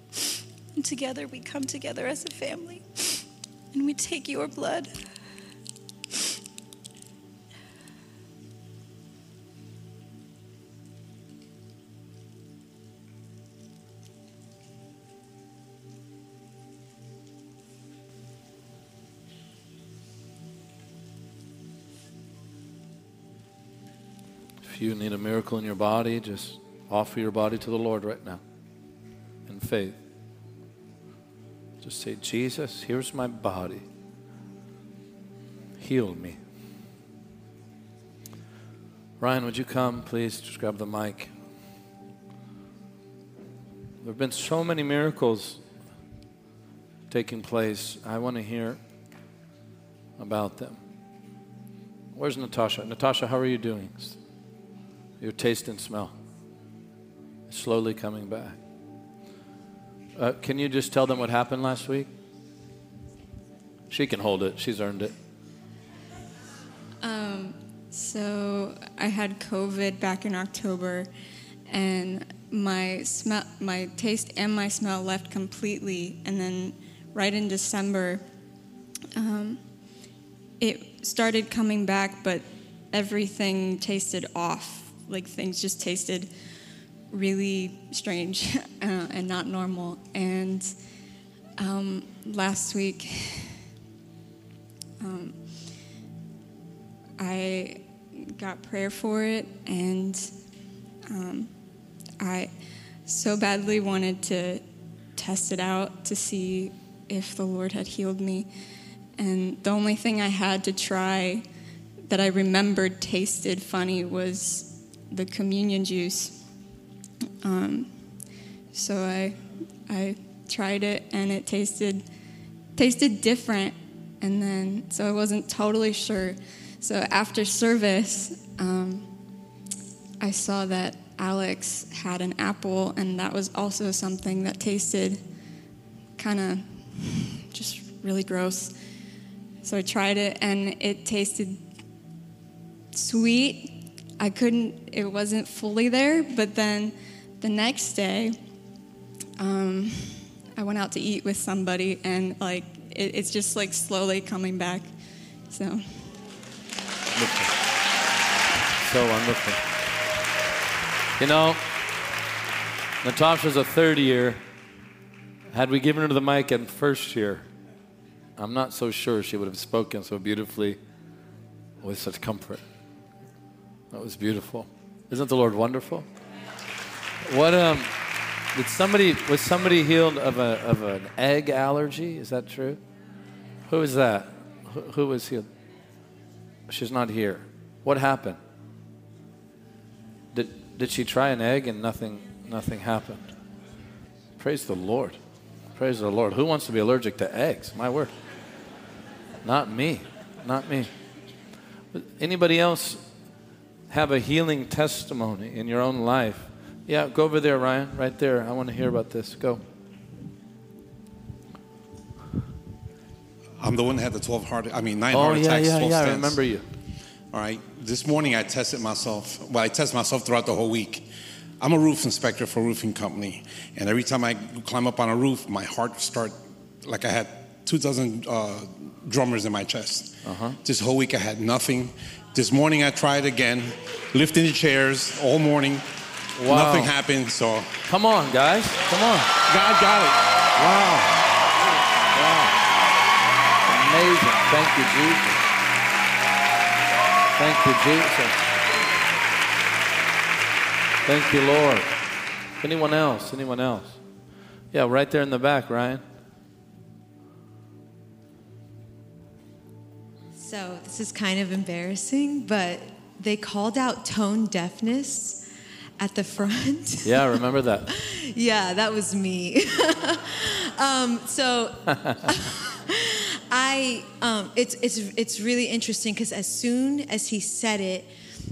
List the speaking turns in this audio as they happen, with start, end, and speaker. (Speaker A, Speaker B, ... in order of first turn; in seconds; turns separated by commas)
Speaker A: 0.8-5.0, Speaker B: 24.6-28.4, Speaker B: 29.5-30.0, Speaker B: 31.8-33.8, Speaker B: 35.8-36.4, Speaker B: 39.2-41.3, Speaker B: 44.0-45.6, Speaker B: 47.1-48.8, Speaker B: 50.2-50.8, Speaker B: 52.1-54.2, Speaker B: 55.2-56.1, Speaker B: 57.5-58.6, Speaker B: 60.2-62.1, Speaker B: 63.9-65.1, Speaker C: 67.0-71.1, Speaker C: 71.7-78.2, Speaker C: 79.2-79.6, Speaker C: 80.6-86.3, Speaker C: 87.1-90.7, Speaker C: 91.6-93.6, Speaker C: 95.0-95.4, Speaker C: 97.2-100.3, Speaker C: 101.1-101.5, Speaker C: 102.2-102.5, Speaker C: 103.0-104.6, Speaker C: 105.1-108.5, Speaker C: 109.2-111.4, Speaker C: 112.1-116.4, Speaker C: 117.4-118.1, Speaker C: 118.7-122.0, Speaker C: 122.8-129.1, Speaker C: 130.2-135.2, Speaker C: 136.2-138.7, Speaker C: 139.6-141.6, Speaker C: 142.9-148.4, Speaker C: 149.4-154.9, Speaker C: 155.5-156.0, Speaker B: 157.1-157.5, Speaker B: 158.8-159.6, Speaker B: 161.2-161.6, Speaker B: 163.0-164.4, Speaker B: 165.5-167.5, Speaker B: 168.4-170.8, Speaker B: 171.8-172.6, Speaker B: 173.9-176.1, Speaker B: 177.2-177.9, Speaker B: 178.5-182.8, Speaker B: 183.7-185.5, Speaker B: 186.7-188.4, Speaker B: 190.3-193.3, Speaker B: 194.4-195.2, Speaker B: 195.8-198.1, Speaker B: 199.4-200.9, Speaker B: 201.9-203.0, Speaker B: 203.9-209.6, Speaker D: 213.6-216.4, Speaker B: 215.1-216.7, Speaker D: 217.3-221.0, Speaker D: 221.6-235.9, Speaker B: 230.2-230.6, Speaker B: 236.3-236.9, Speaker D: 236.4-237.7, Speaker B: 237.8-239.3, Speaker D: 239.5-240.2, Speaker B: 240.6-241.1, Speaker B: 242.1-242.6, Speaker B: 243.7-245.4, Speaker B: 247.4-248.4, Speaker B: 251.1-251.9, Speaker B: 252.6-254.0, Speaker B: 254.7-256.0, Speaker E: 260.3-265.4, Speaker E: 266.0-278.1, Speaker B: 267.0-267.9